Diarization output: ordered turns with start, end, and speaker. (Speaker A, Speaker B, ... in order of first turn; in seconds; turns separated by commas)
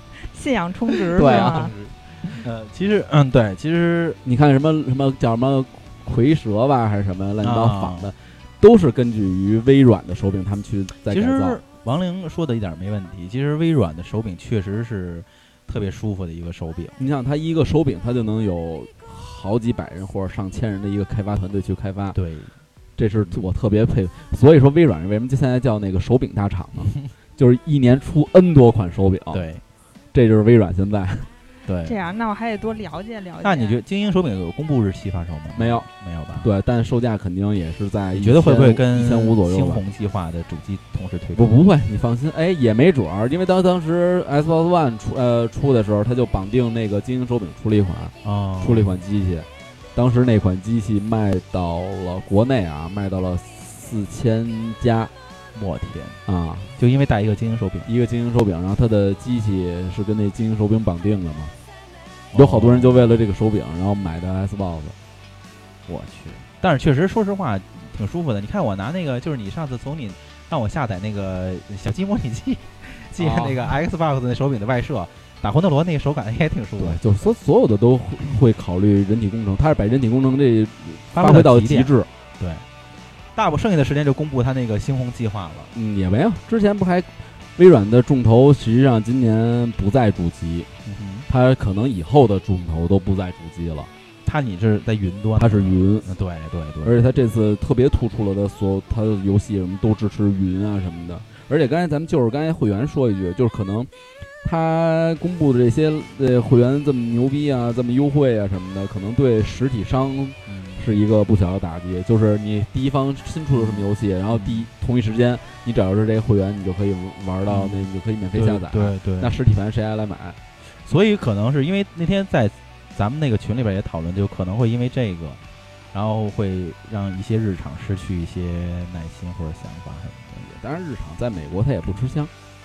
Speaker A: 0.2-1.7, Speaker B: 1.1-4.2, Speaker C: 1.2-1.6, Speaker C: 4.2-11.6, Speaker B: 7.4-8.1, Speaker B: 11.1-17.0, Speaker C: 17.0-22.2, Speaker B: 22.1-22.5, Speaker C: 23.0-29.4, Speaker B: 23.2-23.5, Speaker B: 29.3-29.6, Speaker C: 30.1-31.3, Speaker B: 31.7-31.9, Speaker A: 31.9-33.8, Speaker B: 33.4-36.5, Speaker C: 35.6-35.9, Speaker C: 36.4-39.8, Speaker B: 38.1-41.6, Speaker C: 41.3-55.1, Speaker B: 48.2-48.9, Speaker B: 55.5-56.2, Speaker C: 56.3-56.7, Speaker B: 56.8-57.9, Speaker C: 57.9-61.5, Speaker B: 62.3-63.1, Speaker C: 62.4-65.0, Speaker B: 65.9-77.0, Speaker C: 73.2-73.7, Speaker C: 76.8-82.1, Speaker B: 81.1-82.7, Speaker B: 83.4-85.7, Speaker C: 85.8-90.7, Speaker B: 90.9-91.3, Speaker C: 91.3-93.9, Speaker B: 94.2-97.1, Speaker C: 95.4-96.1, Speaker C: 96.8-103.9, Speaker C: 104.4-120.4, Speaker B: 110.5-110.9, Speaker B: 113.5-114.7, Speaker B: 117.5-119.3, Speaker B: 120.8-125.4, Speaker B: 125.9-130.5, Speaker C: 130.5-132.3